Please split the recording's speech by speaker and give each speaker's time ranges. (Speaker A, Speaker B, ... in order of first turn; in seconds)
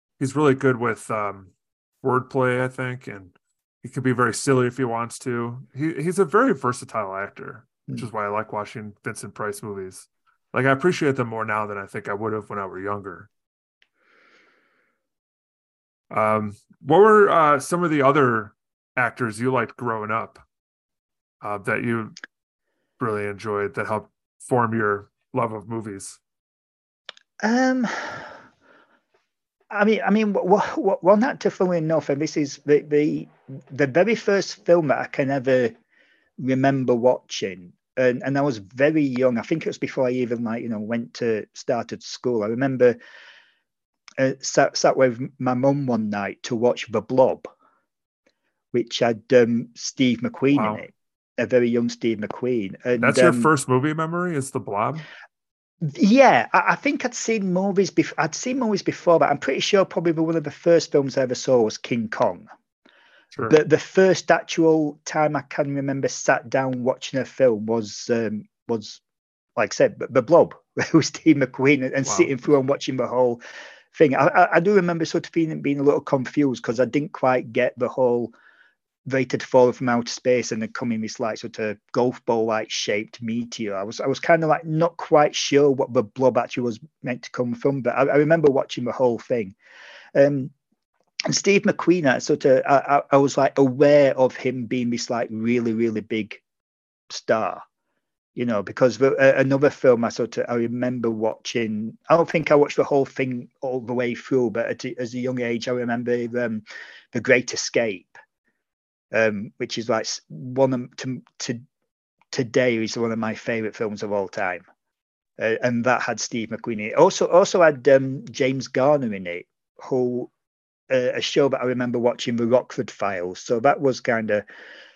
Speaker A: 0.2-13.3, 16.1-20.4, 21.4-22.1, 23.0-26.2, 50.5-50.8, 53.0-55.1, 72.0-72.3
Speaker B: 27.4-28.3, 29.7-35.7, 36.4-43.0, 44.2-47.5, 48.7-53.5, 55.8-62.5, 63.5-69.0, 69.6-73.4, 73.9-78.3, 79.1-89.5, 90.2-90.5, 91.3-96.4, 97.1-97.6, 98.4-108.2, 109.1-111.6, 112.3-114.6, 115.4-120.3, 120.9-124.4